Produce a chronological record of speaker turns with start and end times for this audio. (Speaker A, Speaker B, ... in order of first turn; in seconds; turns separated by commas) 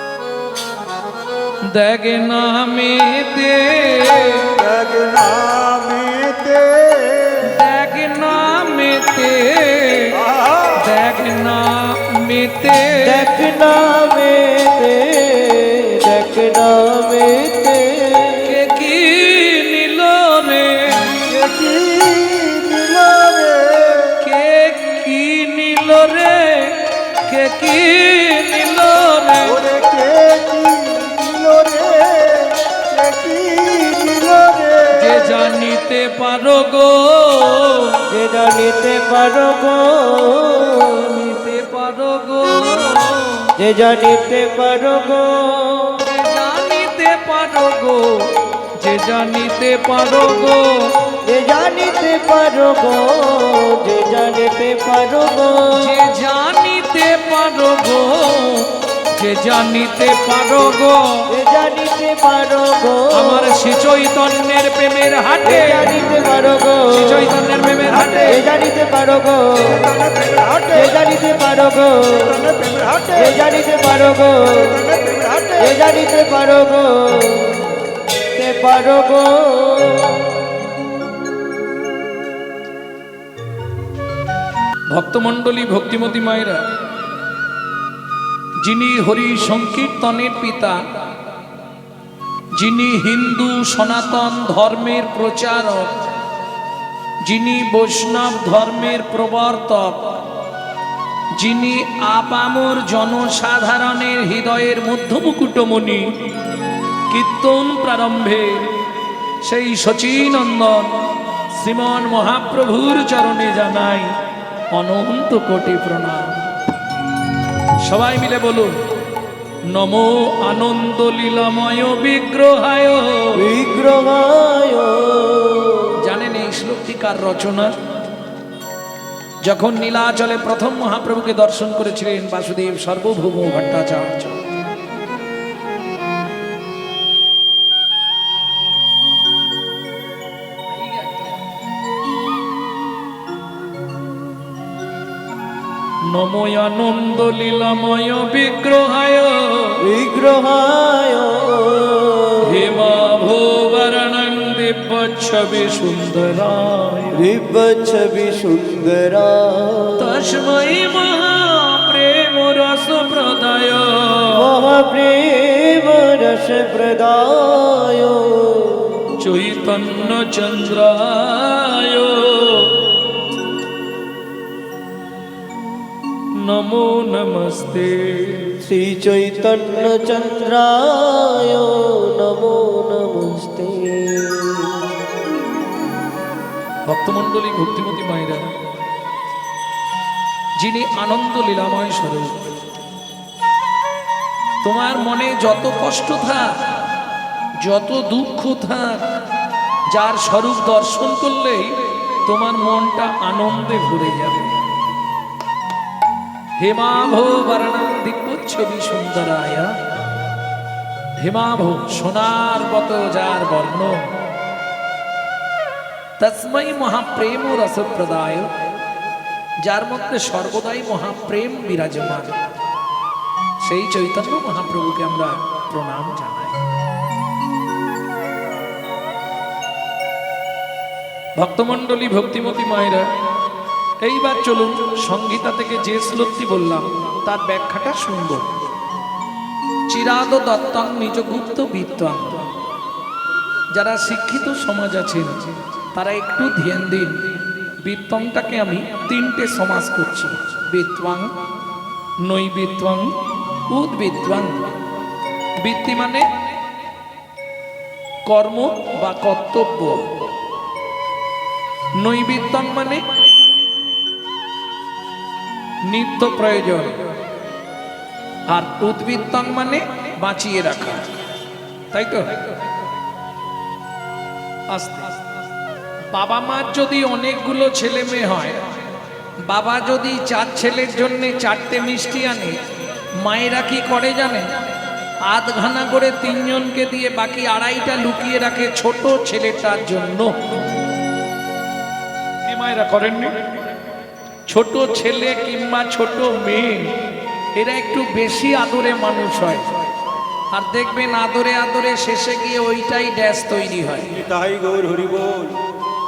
Speaker A: 1.7-4.5, Speaker B: 4.5-7.5, Speaker A: 7.4-10.2, Speaker B: 10.1-10.8, Speaker A: 10.8-13.3, Speaker C: 13.0-18.5, Speaker A: 18.4-21.2, Speaker B: 21.3-24.2, Speaker A: 24.2-29.6, Speaker B: 29.4-35.3, Speaker A: 34.9-38.0, Speaker C: 38.1-41.2, Speaker A: 41.1-43.5, Speaker C: 43.6-46.0, Speaker A: 46.0-50.8, Speaker C: 51.2-55.9, Speaker A: 55.7-61.2, Speaker C: 61.3-63.6, Speaker A: 63.1-65.9, Speaker C: 65.4-67.4, Speaker A: 66.9-68.4, Speaker B: 68.0-68.2, Speaker C: 68.2-69.9, Speaker B: 69.6-70.9, Speaker C: 70.7-72.4, Speaker B: 72.1-73.4, Speaker C: 73.1-74.8, Speaker B: 74.6-75.7, Speaker C: 75.6-77.8, Speaker C: 78.3-80.4, Speaker A: 84.9-86.6, Speaker A: 88.6-90.8, Speaker A: 92.5-96.0, Speaker A: 97.2-100.2, Speaker A: 101.3-106.1, Speaker A: 107.1-108.7, Speaker A: 109.4-111.0, Speaker A: 111.5-114.1, Speaker A: 114.7-116.3, Speaker A: 117.8-118.8, Speaker A: 119.7-123.4, Speaker C: 123.3-126.0, Speaker A: 126.0-127.7, Speaker A: 129.4-134.4, Speaker A: 140.8-141.3, Speaker A: 146.1-149.8, Speaker C: 149.8-152.8, Speaker A: 152.4-157.2, Speaker C: 157.1-160.3, Speaker A: 160.0-164.4, Speaker C: 164.3-169.1, Speaker A: 169.2-172.9, Speaker A: 176.4-178.5, Speaker C: 178.6-184.9, Speaker A: 186.9-188.5, Speaker A: 190.6-192.5, Speaker A: 194.6-196.6, Speaker A: 197.6-199.0, Speaker A: 199.9-204.6, Speaker A: 206.6-209.8, Speaker A: 211.2-214.1, Speaker A: 216.2-218.7, Speaker A: 219.6-222.4, Speaker A: 223.6-226.6, Speaker A: 231.4-233.1, Speaker A: 234.0-238.4, Speaker A: 239.9-242.5, Speaker A: 243.7-247.3, Speaker A: 247.8-251.3, Speaker A: 252.2-253.2, Speaker A: 253.7-254.7, Speaker A: 255.6-256.3, Speaker A: 258.2-260.1, Speaker A: 261.9-263.0, Speaker A: 265.8-267.0, Speaker A: 268.5-271.0, Speaker A: 271.9-272.6, Speaker A: 274.7-275.1, Speaker A: 276.1-278.6, Speaker A: 279.4-282.6, Speaker A: 283.1-284.5, Speaker A: 285.2-290.3, Speaker A: 292.4-293.3, Speaker A: 294.5-297.0, Speaker A: 297.6-299.7, Speaker A: 300.5-304.1, Speaker B: 304.1-305.6